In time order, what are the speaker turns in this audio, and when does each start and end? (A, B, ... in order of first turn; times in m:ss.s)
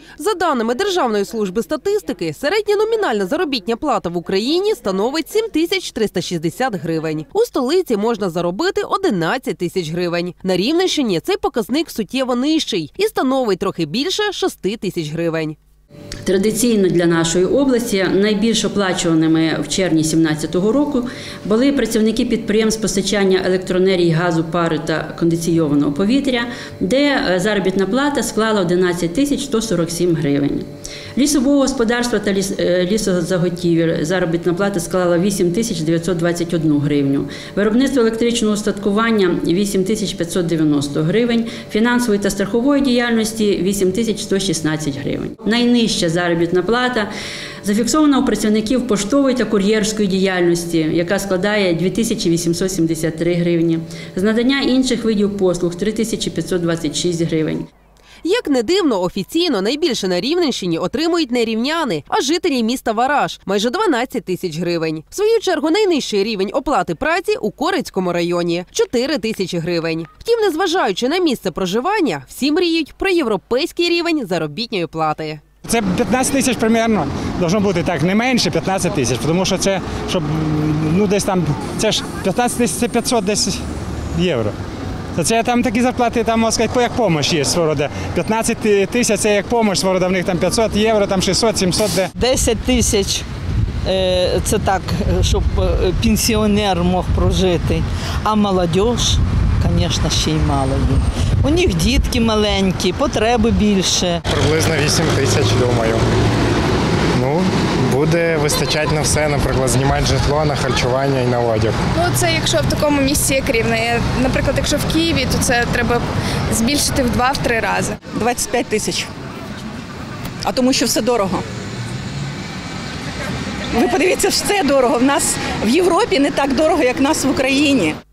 0:00.2-0:15.6 A
0:16.2-0:47.1 B
0:47.6-0:57.7 B
0:58.2-1:15.4 A
1:15.6-1:23.6 C
1:24.2-1:24.5 C
1:25.2-1:32.1 C
1:32.2-1:33.3 D
1:33.8-1:44.2 D
1:44.3-1:46.1 E
1:47.2-1:51.8 E
1:51.9-1:58.0 F
1:58.1-1:59.1 G
2:00.4-2:01.4 G
2:03.7-2:08.0 G